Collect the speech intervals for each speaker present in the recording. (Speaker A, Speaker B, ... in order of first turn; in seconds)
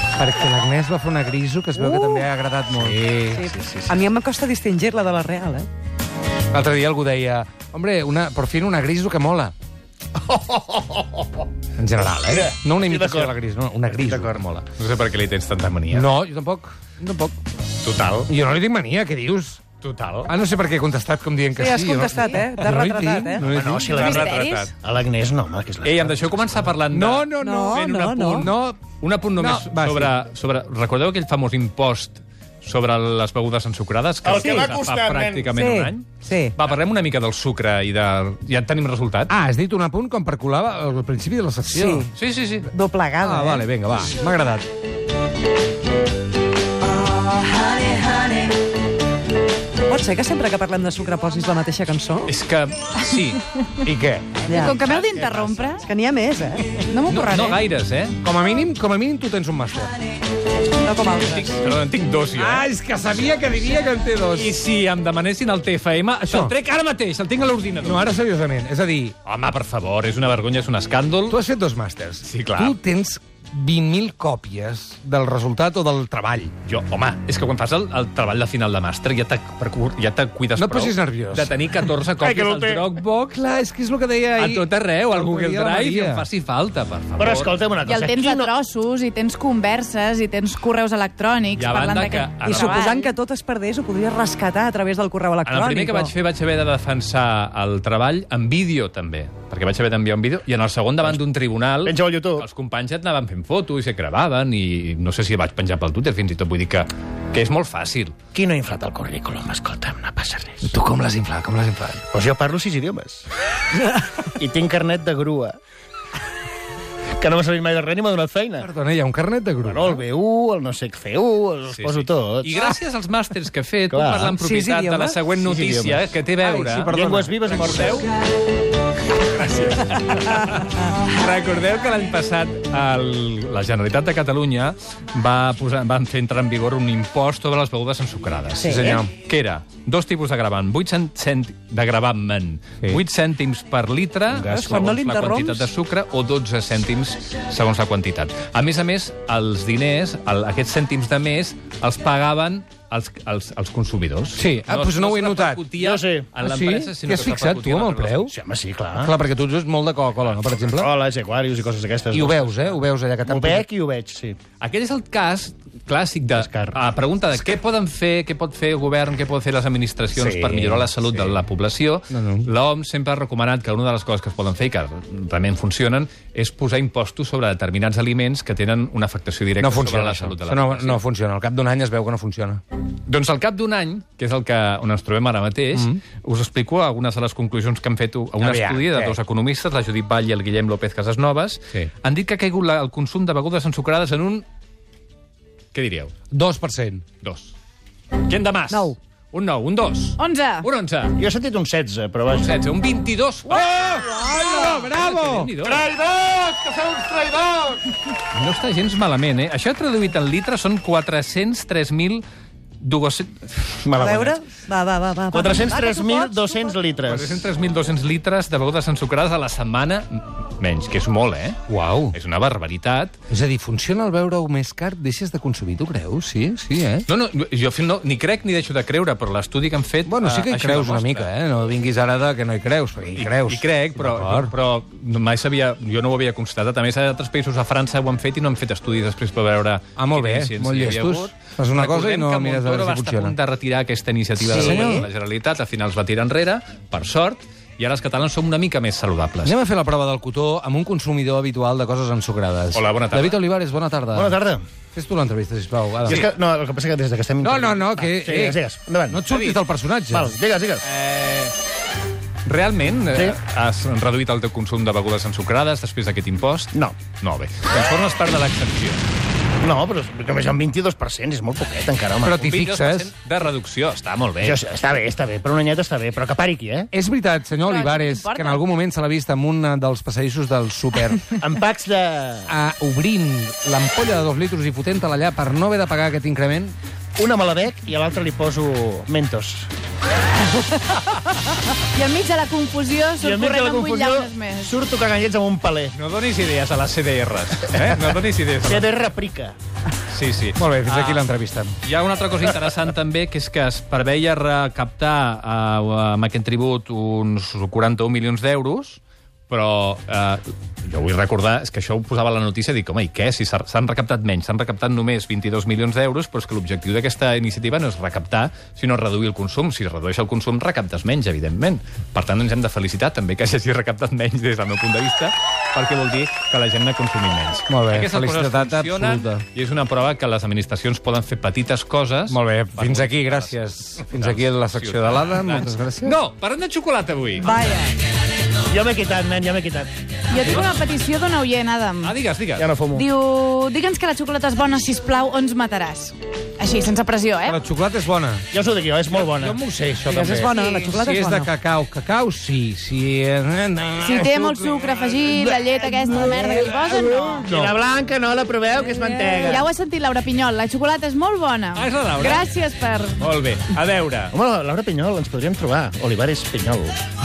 Speaker A: 0.1-3.2, 6.5-9.5, 11.8-14.7, 15.9-17.4, 18.3-19.6, 20.3-24.0, 26.9-28.8, 29.3-30.2, 39.3-42.1, 43.2-44.6, 53.9-54.4, 58.2-60.0, 62.4-64.6, 66.3-66.5, 67.8-69.2, 71.3-76.5, 80.6-81.6, 83.0-86.3, 110.6-112.0, 118.6-120.0, 126.4-128.0, 138.6-139.1, 154.3-155.7, 156.4-158.3, 158.9-160.9, 162.1-163.7, 170.1-170.9, 172.1-172.5, 179.6-182.6, 185.7-186.0, 188.4-189.2, 196.3-197.0, 203.5-205.6, 221.7-222.2, 223.3-227.1, 230.1-234.5, 240.0-243.3, 244.4-245.1, 249.4-254.4, 254.9-256.3, 257.4-260.3, 272.2-273.1, 276.9-281.3, 282.5-286.8, 300.6-301.7, 327.7-329.4, 332.3-336.2, 347.5-348.5, 349.2-357.8
Speaker B: 1.8-2.3, 3.3-5.7, 21.5-23.5, 27.4-28.5, 34.3-34.8, 35.5-36.6, 41.7-42.1, 42.6-43.7, 47.6-48.5, 49.9-52.3, 54.5-54.8, 55.8-56.9, 60.8-61.5, 92.4-96.1, 124.4-125.2, 138.6-139.0, 144.3-145.7, 198.7-199.0, 213.9-216.8, 244.5-245.0, 337.6-337.9, 350.1-351.5
Speaker C: 2.8-3.9, 14.8-16.1, 17.8-18.3, 19.8-20.3, 23.8-24.7, 25.8-39.3, 42.1-42.7, 52.3-53.4, 54.9-55.7, 57.1-58.2, 61.1-68.1, 69.2-71.4, 72.2-72.8, 76.7-83.1, 84.4-87.6, 91.6-92.8, 95.5-108.2, 121.7-126.9, 127.5-128.1, 129.2-158.3, 160.2-160.7, 164.6-181.0, 183.1-194.4, 195.7-196.1, 197.2-197.6, 198.2-201.2, 202.3-205.9, 208.3-212.2, 212.8-213.9, 217.1-223.2, 227.1-231.3, 233.2-249.6, 252.7-253.4, 259.3-259.6, 260.8-261.6, 262.4-269.0, 272.3-274.6, 295.9-298.9, 300.1-301.3, 301.8-337.6, 342.0-342.7, 361.8-362.5, 363.2-364.4
Speaker D: 10.1-11.5, 12.2-13.3, 14.0-14.4, 23.5-26.3, 34.2-35.5, 54.8-55.4, 82.2-82.8, 87.2-88.5, 101.8-102.5, 108.3-110.7, 112.1-113.3, 114.3-115.6, 117.2-118.7, 119.6-122.5, 123.9-124.4, 125.3-126.1, 126.9-128.0, 155.8-156.3, 158.3-159.1, 160.7-162.6, 163.2-164.4, 166.4-166.8, 201.2-202.6, 205.6-207.8, 213.8-214.4, 215.3-217.5, 254.1-254.7, 256.1-259.2, 260.1-260.9, 269.6-272.4, 274.4-276.9, 281.4-282.5, 287.2-289.7, 293.2-295.9, 298.6-299.6, 338.7-339.9, 342.6-343.1, 348.5-349.6, 357.5-359.7, 364.3-367.0
Speaker E: 23.9-24.7, 54.5-55.9, 56.8-57.6, 87.8-93.1, 200.2-200.7, 277.6-278.6, 291.9-294.8, 340.3-342.1, 342.9-347.6, 354.0-357.5, 358.8-363.2